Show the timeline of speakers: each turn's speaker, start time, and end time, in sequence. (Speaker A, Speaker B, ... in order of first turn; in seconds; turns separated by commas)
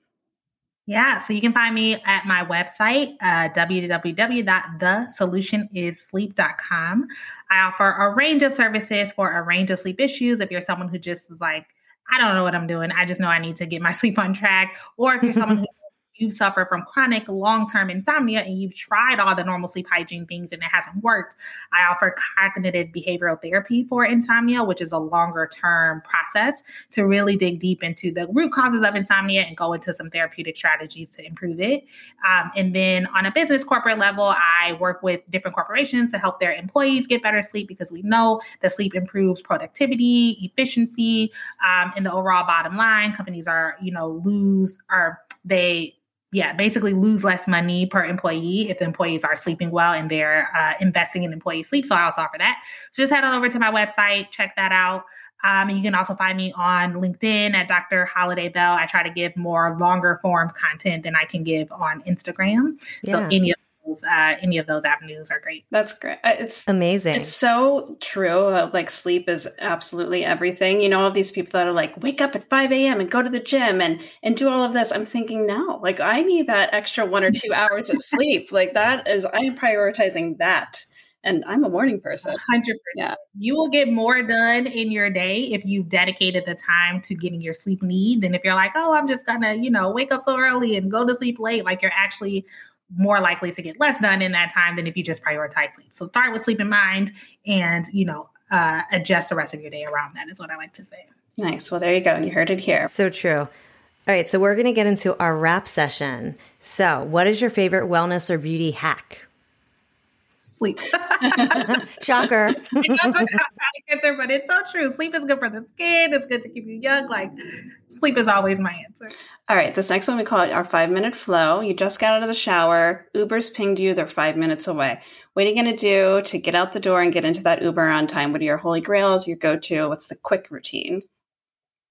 Speaker A: 0.9-65.7, Speaker B: 15.3-15.6, Speaker B: 63.0-63.3, Speaker C: 65.7-82.4, Speaker B: 66.7-67.3, Speaker A: 82.2-101.1, Speaker C: 101.4-102.9, Speaker B: 102.9-103.5, Speaker B: 104.1-109.3, Speaker A: 110.5-111.8, Speaker C: 111.2-111.7, Speaker B: 111.7-113.3, Speaker A: 112.7-117.3, Speaker A: 117.9-119.1, Speaker C: 119.5-131.0